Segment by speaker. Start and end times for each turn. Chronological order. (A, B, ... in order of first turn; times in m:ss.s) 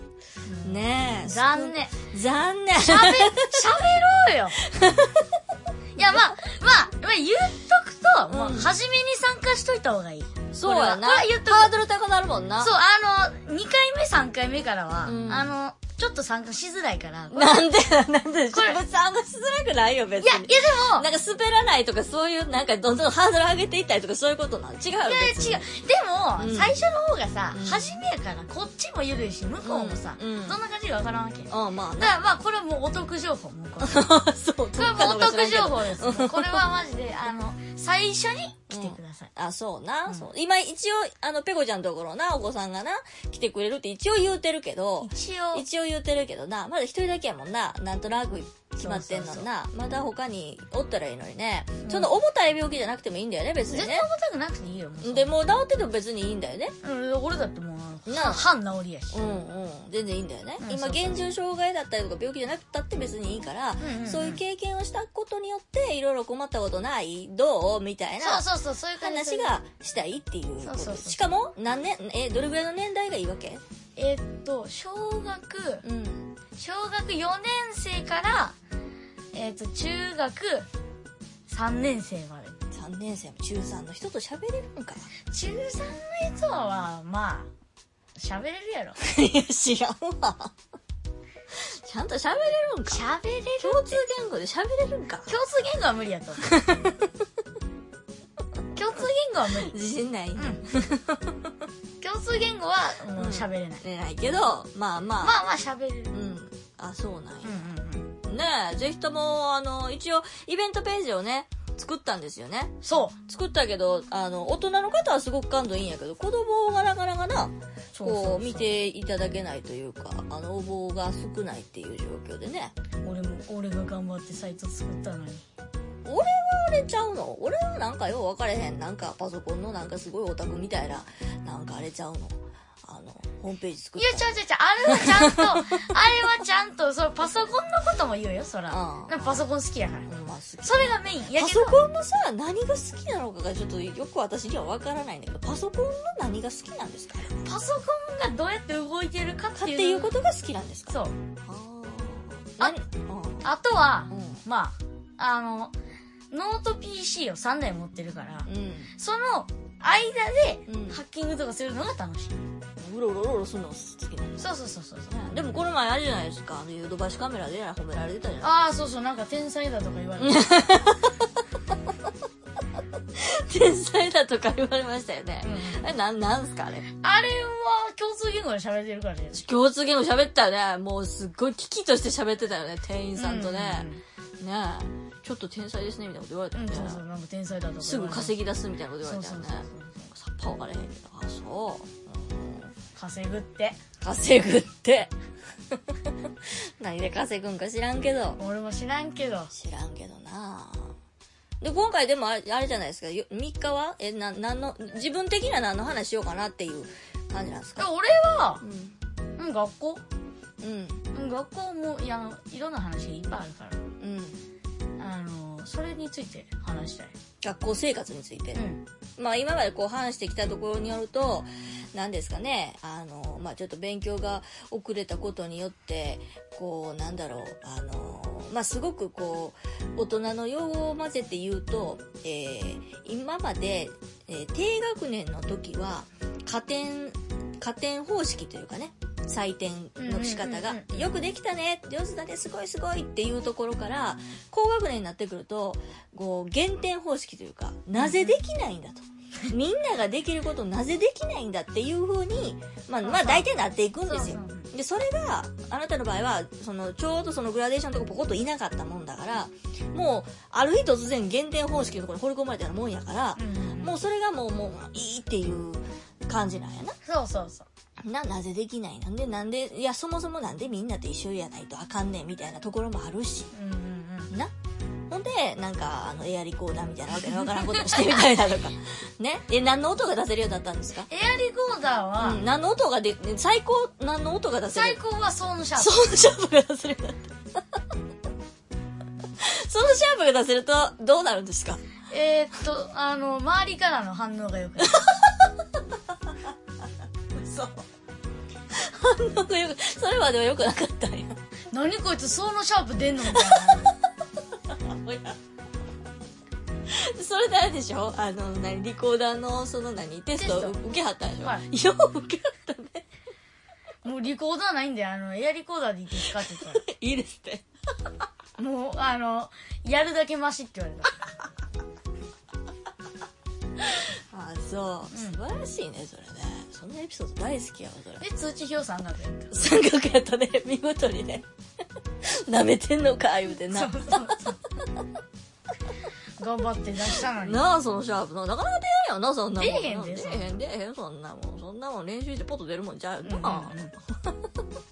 0:00.4-0:02.0 A
0:00.6-0:03.6 B
0:02.8-0:04.6 A
0:04.6-0:05.3 B
0:06.0-0:11.7 A
0:08.3-0:08.7 B
0:10.5-0:12.7 B
0:12.6-0:17.7 A
0:15.0-0:15.5 B
0:17.3-0:25.7 B
0:18.5-0:18.8 A
0:20.2-0:21.1 A
0:25.0-0:34.2 A
0:26.4-0:26.7 B
0:27.5-0:27.8 B
0:29.6-0:30.6 B
0:31.5-0:32.2 B
0:33.8-0:36.6 B
0:34.8-0:39.3 A
0:38.7-0:54.1 B
0:45.0-0:45.6 A
0:48.8-0:49.5 A
0:51.8-0:52.1 A
0:53.7-0:55.3 A
0:55.0-0:56.8 B
0:56.8-0:59.2 A
0:58.1-0:58.5 B
0:59.1-1:13.6 B
1:00.6-1:01.2 A
1:03.8-1:04.4 A
1:08.2-1:09.5 A
1:10.6-1:11.2 A
1:14.0-1:15.8 A
1:15.8-1:16.3 B
1:16.6-1:18.6 A
1:19.3-1:20.7 A
1:21.5-1:22.6 A
1:22.7-1:25.1 B
1:25.3-1:27.5 A
1:28.2-1:29.0 A
1:29.0-1:30.5 B
1:31.6-1:33.0 B
1:32.9-1:34.0 A
1:33.6-1:35.3 B
1:35.3-1:36.5 A
1:36.4-1:37.1 B
1:38.7-1:39.7 A
1:39.5-1:41.5 B
1:40.4-1:40.6 A
1:42.0-1:43.8 A
1:43.2-1:45.4 B
1:45.2-1:46.1 A
1:46.1-1:47.7 B
1:47.4-1:48.1 A
1:48.2-2:02.7 B
1:52.8-1:53.2 A
1:57.9-1:58.7 A
2:03.0-2:05.5 A
2:06.0-2:14.3 B
2:14.0-2:20.1 A
2:14.9-2:15.9 B
2:18.7-2:19.4 B
2:20.1-2:27.4 B
2:20.6-2:21.8 A
2:27.4-2:30.1 A
2:29.6-2:33.5 B
2:30.9-2:31.2 A
2:33.4-2:35.7 A
2:34.1-2:34.4 B
2:36.3-2:42.4 A
2:38.5-2:38.9 B
2:40.7-2:41.0 B
2:42.8-2:44.5 B
2:44.4-2:45.6 A
2:45.1-2:48.6 B
2:48.4-2:50.5 A
2:50.2-2:51.7 B
2:53.1-2:56.9 B
2:55.4-2:55.8 A
2:57.0-2:59.4 A
2:59.4-3:03.9 B
3:03.2-3:04.0 A
3:04.4-3:07.0 B
3:06.6-3:08.4 A
3:07.8-3:12.7 B
3:09.0-3:10.1 A
3:13.0-3:13.8 A
3:14.0-3:15.1 B
3:15.7-3:18.4 B
3:18.4-3:19.5 A
3:19.5-3:21.0 B
3:21.6-3:27.9 B
3:27.8-3:28.6 A
3:28.6-3:29.0 B
3:29.4-3:30.0 A
3:30.6-3:31.0 B
3:31.1-3:33.8 A
3:34.0-3:34.4 B
3:35.0-3:37.1 A
3:37.4-4:27.0 B
3:38.6-3:38.8 A
4:00.0-4:01.1 A
4:08.0-4:08.4 A
4:13.0-4:13.5 A
4:14.1-4:14.7 A
4:23.4-4:24.0 A
4:27.0-4:27.7 A
4:28.0-4:33.5 B
4:33.5-4:34.3 A
4:35.1-4:41.1 B
4:41.1-4:42.4 A
4:42.2-4:45.0 B
4:44.7-4:46.0 A
4:45.8-4:47.6 B
4:49.4-4:51.8 B
4:52.1-4:55.0 A
4:54.8-4:55.5 B
4:57.4-4:57.8 B
4:58.7-5:01.4 B
5:01.7-5:03.9 A
5:03.4-5:03.8 B
5:04.7-5:05.4 B
5:06.9-5:13.1 B
5:10.4-5:10.8 A
5:14.0-5:16.8 A
5:16.3-5:17.6 B
5:18.6-5:21.1 A
5:23.8-5:28.2 B
5:25.1-5:25.4 A
5:28.2-5:29.6 A
5:29.5-5:31.5 B
5:32.2-5:34.5 B
5:33.6-5:34.6 A
5:36.4-5:37.7 A
5:37.3-5:44.5 B
5:39.6-5:40.5 A
5:43.2-5:43.9 A